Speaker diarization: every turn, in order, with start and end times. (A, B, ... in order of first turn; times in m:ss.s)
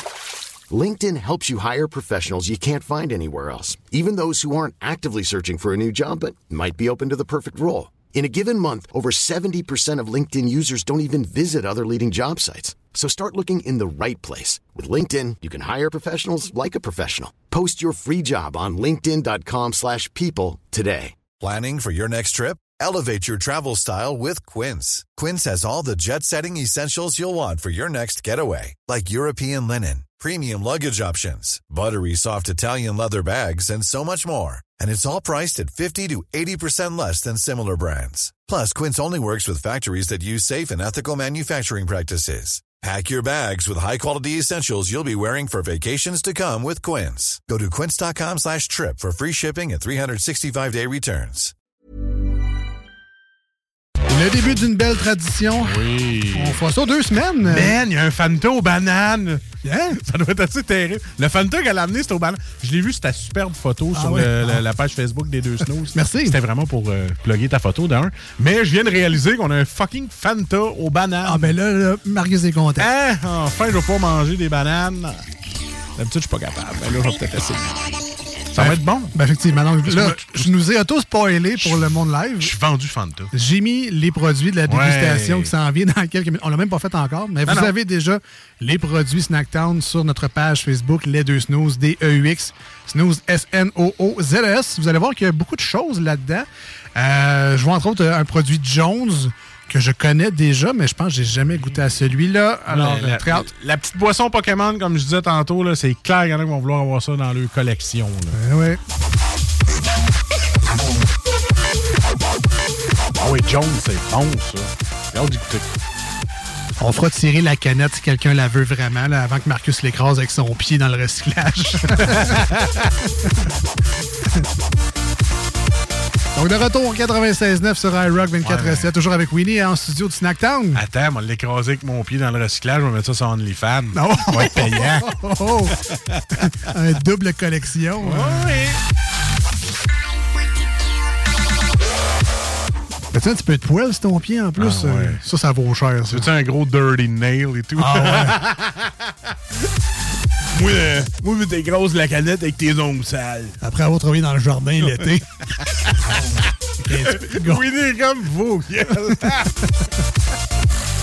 0:00.7-0:21.2 A
0:21.4-0:51.5 B
0:54.1-0:57.8 C
0:55.6-0:56.6 D
0:57.4-0:59.4 D
0:59.6-1:00.0 C
1:00.0-1:11.5 D
1:03.9-1:04.7 C
1:05.9-1:06.4 C
1:11.2-1:12.9 C
1:12.8-1:15.3 D
1:16.0-1:17.9 D
1:18.5-1:19.2 D
1:18.6-1:22.5 C
1:19.9-1:20.5 D
1:22.4-1:23.3 D
1:23.3-1:43.5 C
1:24.7-1:25.5 D
1:27.4-1:27.7 D
1:42.7-1:48.4 D
1:48.3-1:48.8 C
1:53.2-1:55.7 D
1:56.8-2:02.5 C
2:02.0-2:02.9 D
2:06.3-2:10.8 C
2:08.4-2:08.9 D
2:10.7-2:16.2 D
2:13.9-2:15.8 C
2:16.3-2:18.7 C
2:18.0-2:18.8 D
2:23.1-2:26.3 C
2:24.6-2:25.2 D
2:26.1-2:28.9 D
2:27.8-2:28.4 C
2:30.5-2:33.6 D
2:33.6-2:35.5 C
2:35.7-2:39.7 D
2:36.8-2:37.6 C